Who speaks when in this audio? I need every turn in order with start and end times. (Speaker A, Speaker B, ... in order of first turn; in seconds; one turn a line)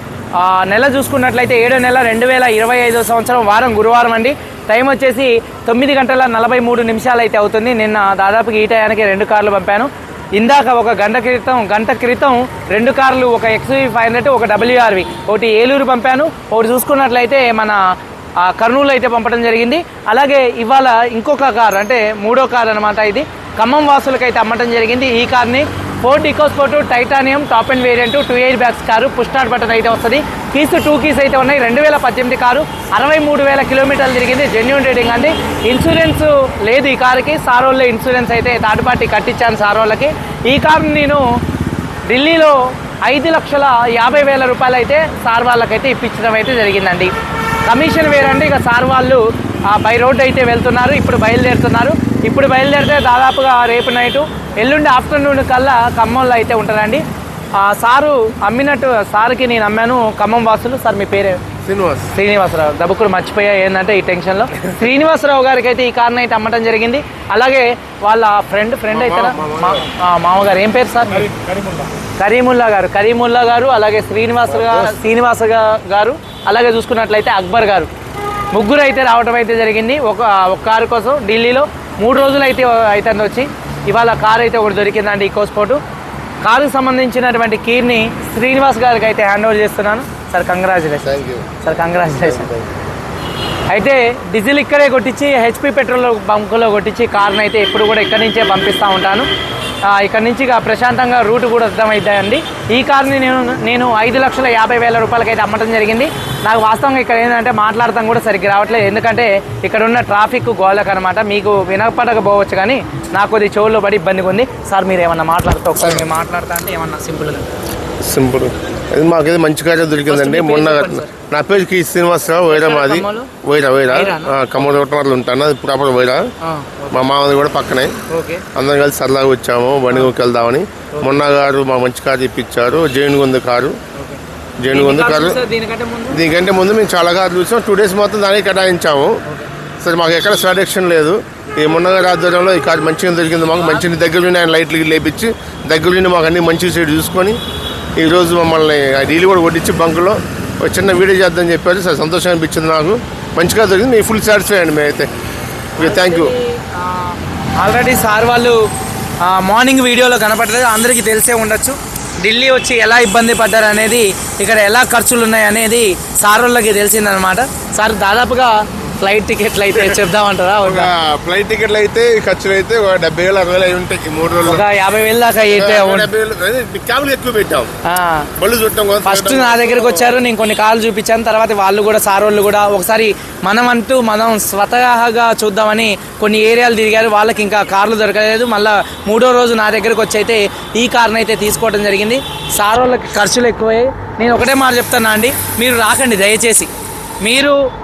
Speaker A: 0.3-17.8
Speaker A: 18.4-41.3
Speaker A: 42.1-47.1
Speaker A: 47.6-57.0
Speaker A: 57.5-61.4
Speaker B: 61.6-62.1
Speaker A: 62.1-71.4
Speaker B: 68.9-69.8
Speaker A: 72.2-77.9
Speaker B: 74.5-75.0
Speaker A: 78.5-85.8
Speaker A: 86.4-92.5
Speaker B: 91.0-91.6
Speaker B: 92.2-92.7
Speaker A: 93.7-99.3
Speaker A: 99.8-117.5
Speaker B: 115.8-116.1
Speaker B: 118.0-126.3
Speaker A: 120.1-121.1
Speaker A: 122.5-123.3
Speaker A: 123.9-124.5
Speaker A: 126.4-127.0
Speaker B: 126.9-128.0
Speaker A: 128.1-128.4
Speaker B: 128.5-133.8
Speaker A: 133.9-136.2
Speaker B: 134.6-135.4
Speaker B: 136.1-139.2
Speaker B: 139.8-147.4
Speaker A: 143.6-143.9
Speaker B: 148.0-155.1
Speaker B: 155.8-156.3
Speaker A: 155.8-158.6
Speaker A: 159.2-170.9
Speaker B: 170.6-174.6
Speaker A: 174.4-176.1
Speaker B: 175.5-177.7
Speaker A: 177.8-178.3
Speaker B: 178.4-180.2
Speaker A: 179.0-196.7
Speaker A: 197.2-197.6